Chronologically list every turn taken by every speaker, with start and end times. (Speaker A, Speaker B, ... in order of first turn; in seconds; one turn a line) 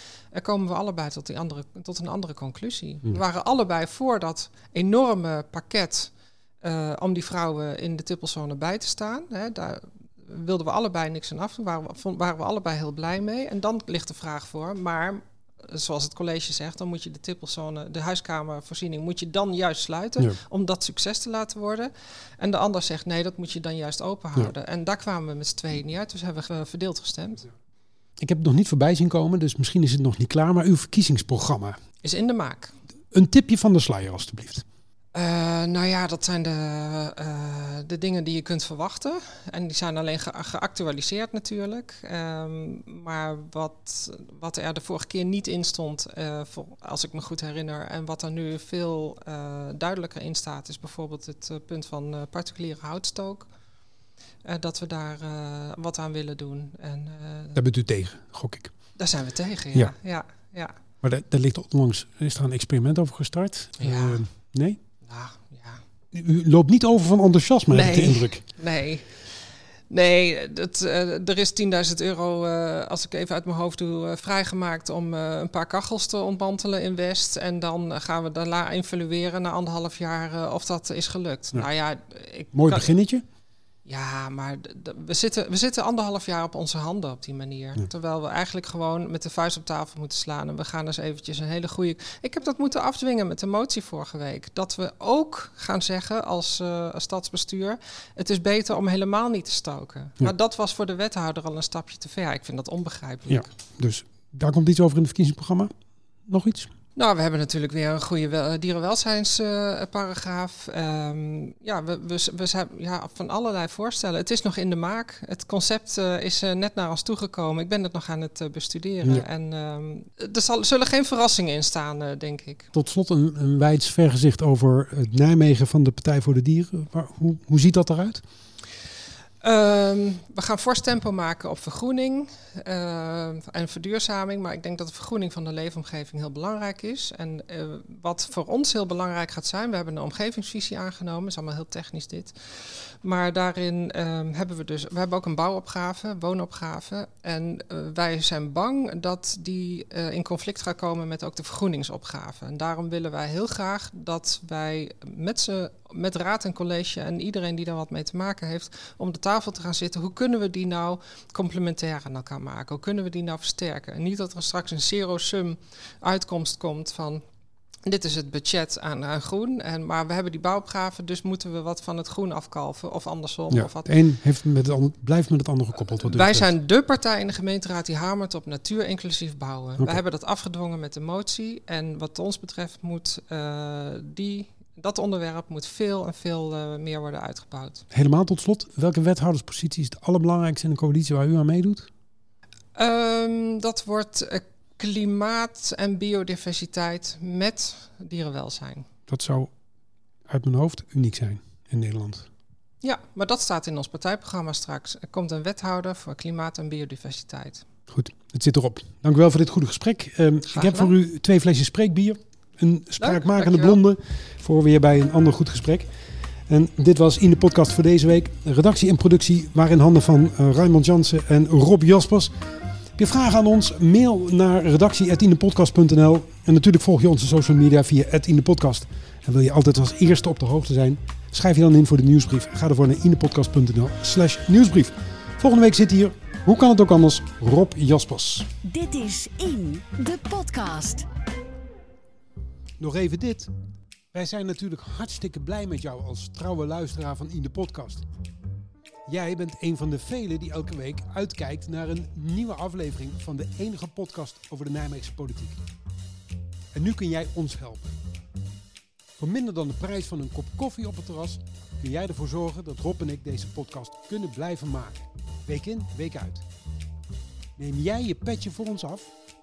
Speaker A: 0.3-6.1
Speaker A: 6.6-27.5
Speaker B: 28.2-31.8
Speaker A: 32.0-32.8
Speaker B: 33.1-34.7
Speaker A: 35.1-53.5
Speaker A: 54.5-57.6
Speaker B: 57.5-58.7
Speaker A: 59.0-60.8
Speaker B: 61.0-64.8
Speaker A: 63.8-64.2
Speaker A: 65.0-65.8
Speaker B: 66.1-68.4
Speaker A: 67.7-82.9
Speaker B: 82.5-83.2
Speaker A: 83.9-103.5
Speaker B: 103.3-105.7
Speaker B: 106.3-106.7
Speaker A: 107.0-122.7
Speaker B: 122.7-128.2
Speaker A: 129.4-167.2
Speaker A: 167.8-173.9
Speaker B: 173.5-176.5
Speaker A: 176.0-187.8
Speaker B: 187.9-191.9
Speaker A: 192.8-198.9
Speaker B: 199.1-199.5
Speaker B: 200.3-202.3
Speaker A: 202.8-207.7
Speaker B: 207.9-215.9
Speaker A: 210.5-210.9
Speaker A: 213.0-213.8
Speaker B: 216.5-222.3
Speaker B: 223.0-238.5
Speaker C: 238.7-241.1
Speaker B: 242.8-243.5
Speaker B: 244.1-248.1
Speaker B: 249.1-255.6
Speaker B: 256.7-257.9
Speaker B: 259.2-266.4
Speaker B: 267.6-269.1